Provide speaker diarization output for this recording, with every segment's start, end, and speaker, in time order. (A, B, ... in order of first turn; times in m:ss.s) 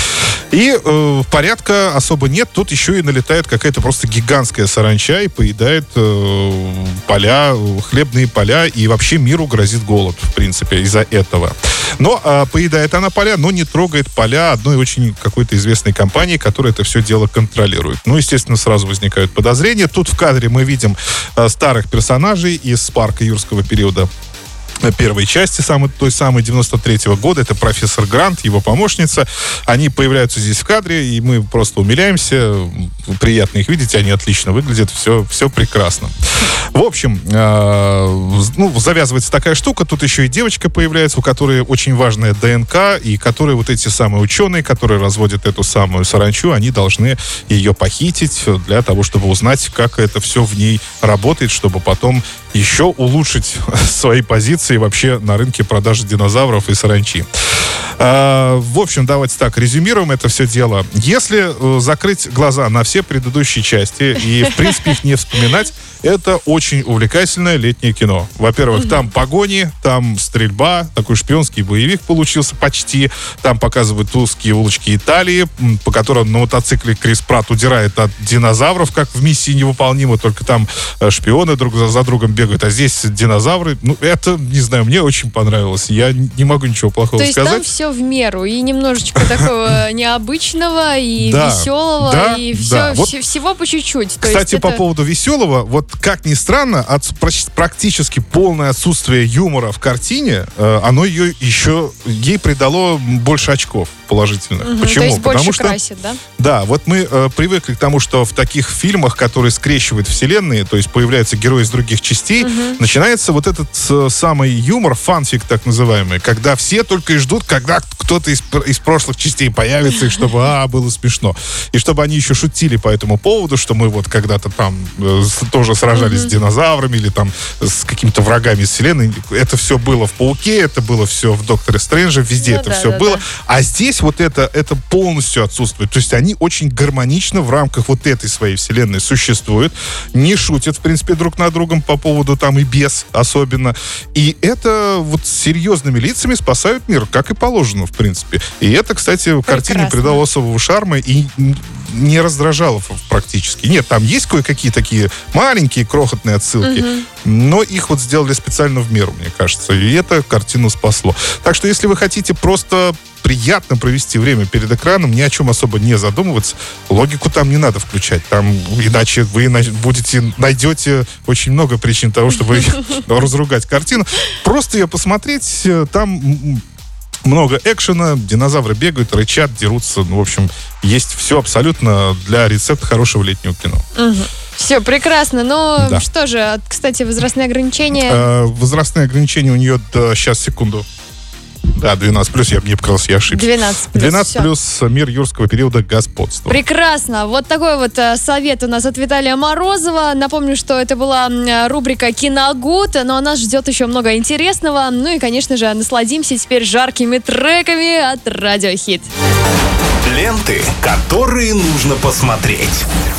0:00.5-0:24.1 A
0:24.8-0:36.1 A
0:36.7-0:57.2 A
0:58.0-1:27.7 A
1:27.2-1:34.8 B
1:31.2-1:33.1 A
1:34.2-1:45.8 A
1:44.6-1:46.2 B
1:46.4-2:56.6 A
1:52.4-1:52.8 B
2:05.9-2:06.3 B
2:12.4-2:13.2 B
2:29.5-2:30.2 B
2:36.6-2:37.0 B
2:57.2-3:03.8 A
3:03.9-3:08.3 B
3:05.8-3:06.0 A
3:07.9-3:10.8 A
3:11.8-3:16.6 A
3:13.3-3:14.5 B
3:16.5-3:29.1 B
3:30.0-3:32.8 C